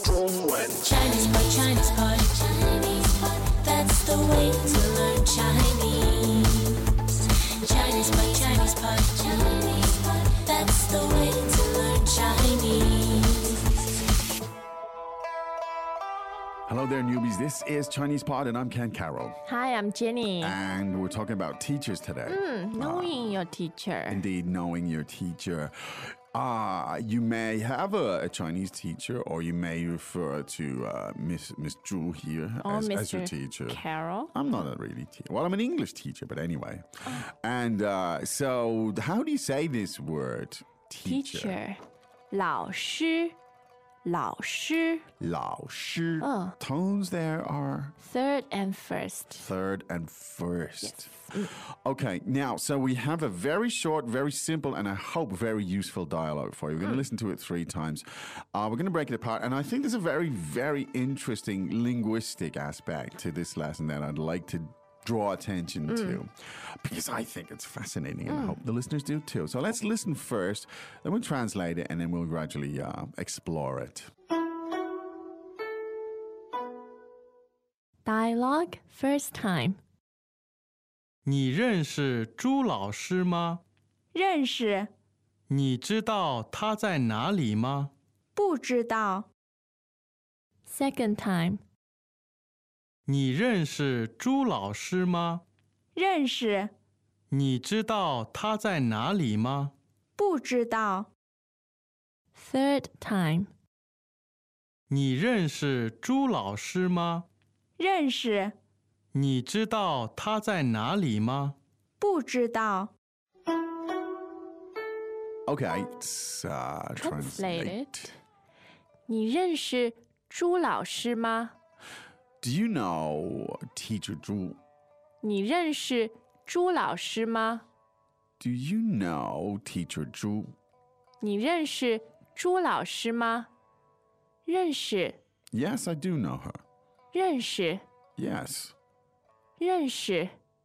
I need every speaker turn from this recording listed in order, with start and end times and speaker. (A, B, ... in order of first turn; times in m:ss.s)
0:00.8-0:06.8 A
0:07.6-0:13.5 A
0:16.7-0:19.4 B
0:19.4-0:20.6 C
0:20.4-0:23.4 B
0:22.3-0:24.2 C
0:24.1-0:41.6 B
0:32.6-0:34.3 C
0:41.0-0:41.8 C
0:42.3-0:43.3 C
0:44.0-0:45.0 C
0:45.2-0:47.9 B
0:46.2-0:46.6 C
0:48.0-0:49.4 C
0:49.3-1:14.1 B
0:50.8-0:51.5 C
1:05.9-1:06.2 C
1:08.3-1:08.6 C
1:18.0-1:19.8 C
1:21.2-1:23.6 D
1:24.1-1:24.9 E
1:25.5-1:27.9 D
1:28.4-1:29.3 E
1:30.7-1:31.6 C
1:33.1-1:35.4 D
1:35.9-1:36.7 E
1:37.3-1:39.7 D
1:40.2-1:41.1 E
1:42.3-1:43.5 C
1:44.9-1:47.2 D
1:47.8-1:48.5 E
1:49.1-1:51.6 D
1:52.0-1:52.9 E
1:55.5-1:58.1 B
1:57.0-1:58.1 C
1:59.1-2:01.5 C
2:02.4-2:04.6 B
2:05.2-2:07.6 C
2:08.4-2:10.5 B
2:11.2-2:13.5 C
2:14.4-2:15.2 C
2:15.5-2:16.6 B
2:17.1-2:17.8 C
2:18.2-2:18.7 B
2:19.6-2:20.3 C